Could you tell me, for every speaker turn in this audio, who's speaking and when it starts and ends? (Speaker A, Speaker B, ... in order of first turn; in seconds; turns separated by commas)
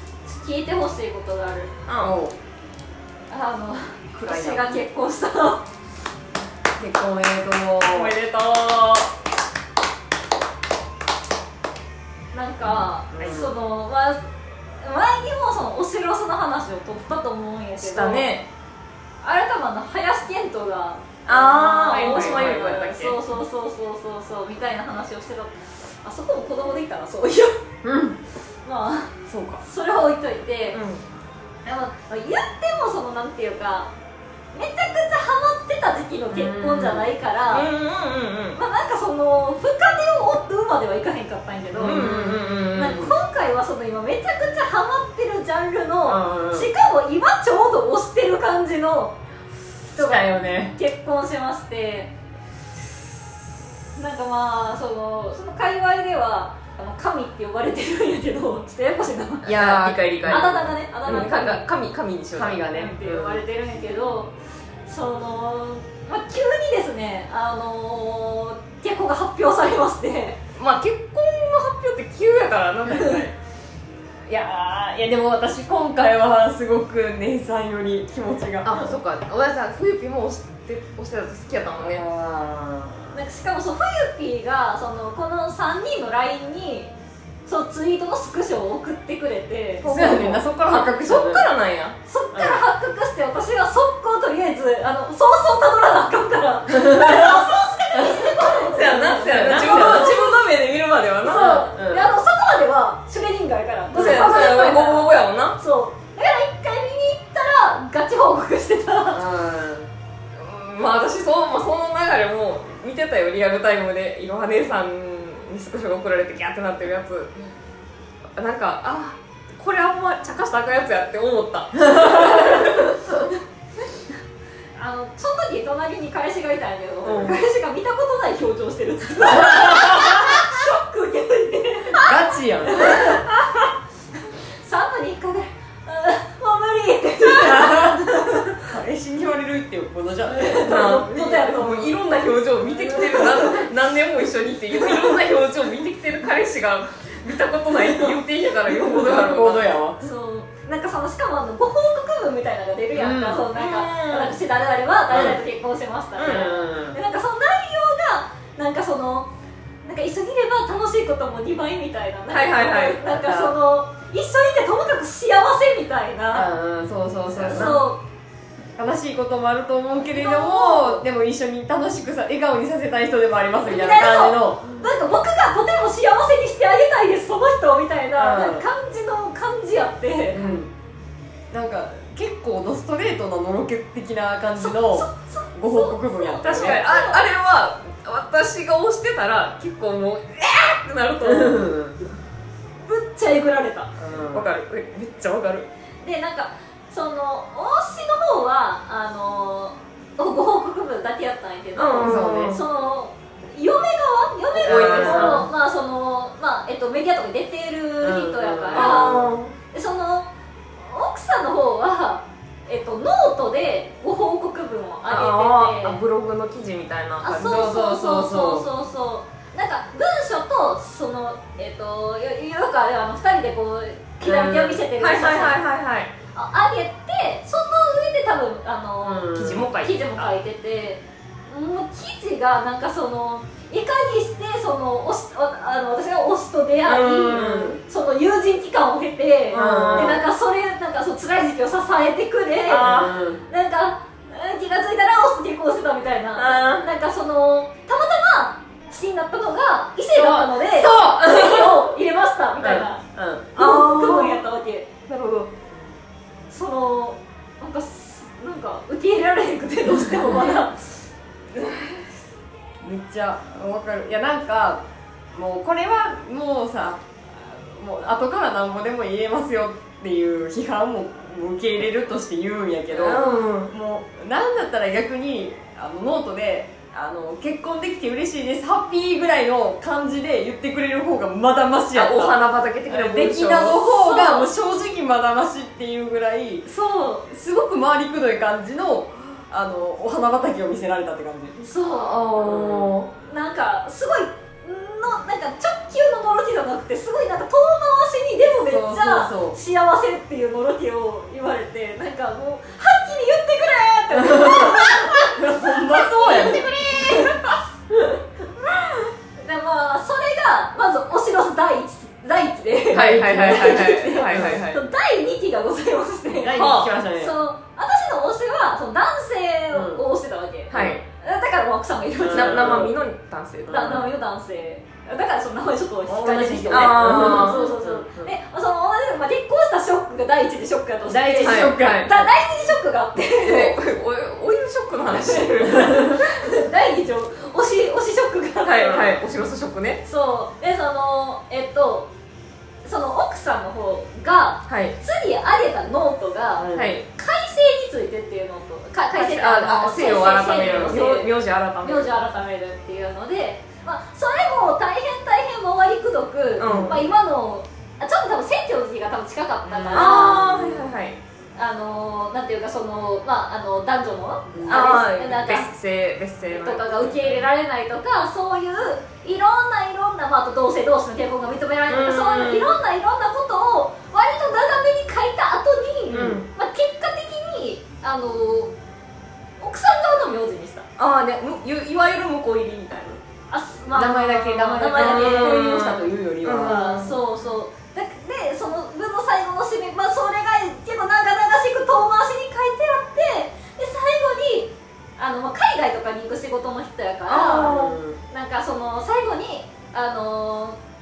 Speaker A: 0.2-1.7, Speaker B: 1.9-2.2, Speaker C: 2.0-2.4, Speaker A: 3.3-5.6, Speaker C: 4.1-4.8, Speaker C: 6.8-8.1, Speaker B: 7.8-9.1, Speaker A: 12.3-14.2, Speaker C: 13.1-13.6, Speaker A: 14.8-18.4, Speaker B: 17.8-18.5, Speaker A: 19.2-27.6, Speaker B: 21.3-23.2, Speaker C: 21.9-22.8, Speaker C: 27.8-28.2, Speaker A: 28.6-30.8, Speaker C: 29.3-29.6, Speaker B: 30.7-31.0, Speaker A: 31.6-33.9, Speaker A: 34.5-37.7, Speaker C: 36.3-37.1, Speaker B: 37.5-38.6, Speaker A: 38.5-49.2, Speaker C: 41.7-43.1, Speaker B: 41.8-43.0, Speaker C: 46.1-46.7, Speaker A: 49.9-52.1, Speaker C: 50.0-50.8, Speaker A: 54.0-59.6, Speaker C: 59.5-61.6, Speaker B: 59.5-62.6, Speaker A: 60.2-61.6, Speaker C: 62.3-63.5, Speaker A: 62.7-64.3, Speaker A: 64.9-70.4, Speaker B: 70.6-73.3, Speaker C: 74.3-79.0, Speaker B: 78.6-82.0, Speaker C: 81.8-83.2, Speaker A: 83.1-86.9, Speaker A: 87.5-89.9, Speaker B: 89.8-92.0, Speaker C: 89.8-91.5, Speaker A: 92.1-100.4, Speaker C: 92.3-92.6, Speaker C: 96.7-100.4, Speaker B: 98.7-101.7, Speaker A: 101.2-109.3, Speaker C: 101.3-102.1, Speaker B: 103.9-105.6, Speaker C: 104.0-104.3, Speaker C: 109.1-109.9, Speaker B: 110.3-117.3, Speaker B: 118.4-123.0, Speaker A: 124.8-133.3, Speaker B: 127.0-127.4, Speaker C: 129.3-130.4, Speaker C: 132.0-133.2, Speaker A: 134.6-138.6, Speaker C: 137.2-141.0, Speaker A: 140.3-141.9, Speaker B: 140.7-149.7, Speaker A: 142.8-143.6, Speaker C: 148.7-150.0, Speaker A: 150.0-159.3, Speaker C: 152.9-153.5, Speaker B: 153.5-154.4, Speaker B: 155.1-155.4, Speaker B: 156.2-156.5, Speaker C: 156.2-157.0, Speaker A: 159.8-166.5, Speaker B: 162.3-163.0, Speaker C: 163.1-163.6, Speaker C: 166.3-167.8, Speaker A: 167.4-168.0, Speaker B: 167.4-167.8, Speaker C: 168.8-174.8, Speaker A: 170.1-171.0, Speaker A: 173.6-180.5, Speaker C: 178.2-178.7, Speaker C: 180.3-180.7, Speaker C: 181.5-186.8, Speaker A: 184.6-187.2, Speaker B: 186.4-191.7, Speaker C: 191.2-192.0, Speaker A: 192.9-193.9, Speaker C: 194.0-194.5, Speaker B: 194.3-195.7, Speaker A: 196.0-216.0, Speaker B: 201.8-202.6, Speaker C: 202.0-202.6, Speaker C: 204.6-205.5, Speaker B: 204.6-205.5, Speaker C: 208.0-209.4, Speaker B: 208.7-209.5, Speaker B: 215.1-217.7, Speaker A: 217.2-225.6, Speaker C: 217.3-218.7, Speaker C: 224.2-224.8, Speaker B: 225.0-226.1, Speaker A: 226.3-253.0, Speaker C: 229.0-229.7, Speaker B: 229.3-230.3, Speaker B: 236.8-237.8, Speaker C: 237.3-237.8, Speaker B: 239.5-240.2, Speaker C: 239.5-240.2, Speaker B: 242.7-243.2, Speaker C: 242.8-243.4, Speaker B: 246.4-246.9, Speaker C: 250.2-251.7, Speaker B: 250.3-251.2, Speaker C: 252.6-253.8, Speaker A: 253.6-254.9, Speaker B: 253.6-254.4, Speaker B: 255.1-255.5, Speaker A: 256.5-260.9, Speaker C: 262.8-286.7, Speaker B: 272.9-273.7, Speaker B: 281.9-283.8, Speaker A: 283.6-284.5, Speaker A: 286.7-287.3, Speaker C: 287.3-291.6, Speaker A: 291.6-292.4, Speaker B: 291.9-293.1, Speaker C: 292.4-292.9, Speaker A: 293.2-307.6, Speaker C: 298.6-299.6, Speaker C: 304.2-307.4, Speaker A: 309.4-323.0, Speaker C: 312.9-314.7, Speaker B: 312.9-314.8, Speaker C: 316.4-317.4, Speaker B: 316.5-316.9, Speaker C: 319.7-320.0, Speaker B: 320.7-321.0, Speaker C: 320.7-321.0, Speaker C: 322.2-323.0, Speaker B: 322.3-324.1, Speaker C: 323.7-324.1, Speaker A: 323.7-333.8, Speaker C: 326.1-328.3, Speaker B: 326.7-327.6, Speaker C: 331.1-332.2, Speaker B: 331.4-332.1, Speaker B: 333.4-336.3, Speaker A: 335.2-339.2, Speaker B: 338.6-340.0, Speaker A: 340.0-342.1, Speaker A: 342.8-360.5, Speaker B: 344.7-345.0, Speaker C: 346.6-347.0, Speaker B: 346.8-347.1, Speaker B: 349.1-352.2, Speaker C: 350.5-351.0, Speaker B: 356.6-357.1, Speaker C: 356.6-357.1, Speaker C: 359.6-360.9, Speaker B: 359.9-361.2, Speaker A: 361.6-365.7, Speaker C: 364.5-365.0, Speaker B: 364.7-367.5, Speaker A: 366.5-378.7, Speaker B: 371.9-372.8, Speaker C: 376.1-376.4, Speaker B: 376.1-376.5, Speaker A: 379.6-380.9, Speaker B: 381.0-383.2, Speaker A: 383.5-385.8, Speaker C: 383.9-387.1, Speaker B: 384.8-387.2, Speaker A: 386.6-397.8, Speaker B: 397.3-398.0, Speaker C: 397.5-398.2, Speaker A: 398.3-400.8